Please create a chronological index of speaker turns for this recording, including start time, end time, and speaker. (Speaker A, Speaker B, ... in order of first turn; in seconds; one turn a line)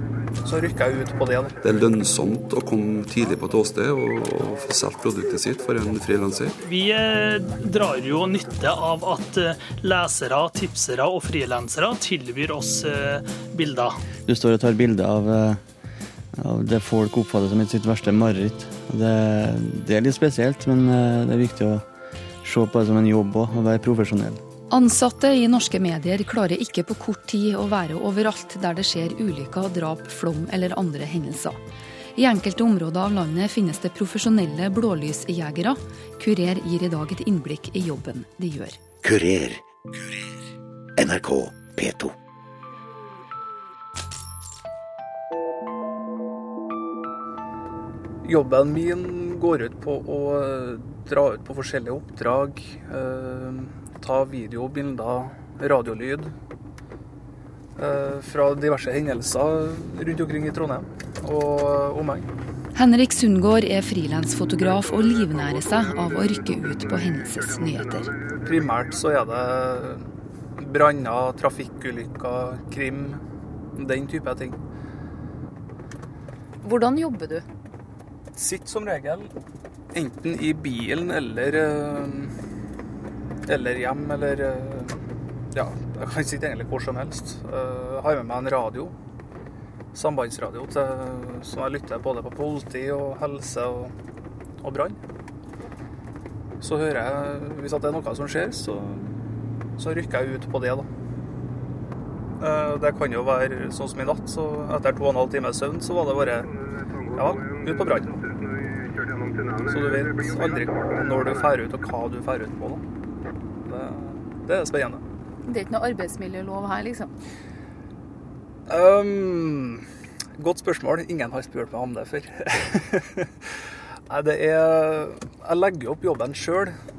Speaker A: 0.5-1.6
Speaker B: 1.6-6.6
Speaker C: 6.6-14.0
Speaker D: 14.3-15.6
Speaker D: 16.3-21.9
Speaker D: 22.4-24.4
Speaker E: 24.7-31.6
Speaker E: 32.2-38.8
Speaker F: 39.0-40.3
Speaker F: 41.0-42.1
Speaker A: 48.2-56.3
Speaker A: 57.8-62.3
Speaker E: 62.8-68.1
Speaker A: 68.4-73.2
Speaker A: 73.8-74.6
Speaker E: 76.6-77.5
Speaker A: 78.4-79.3
Speaker A: 79.9-82.3
Speaker A: 83.5-85.0
Speaker A: 85.5-88.9
Speaker A: 89.9-93.9
Speaker A: 94.6-95.0
Speaker A: 96.6-99.2
Speaker A: 99.8-100.9
Speaker A: 102.4-106.5
Speaker A: 107.1-108.2
Speaker A: 109.6-112.8
Speaker A: 113.7-115.0
Speaker E: 115.5-117.1
Speaker A: 118.7-119.8
Speaker A: 120.4-123.3
Speaker A: 124.1-126.7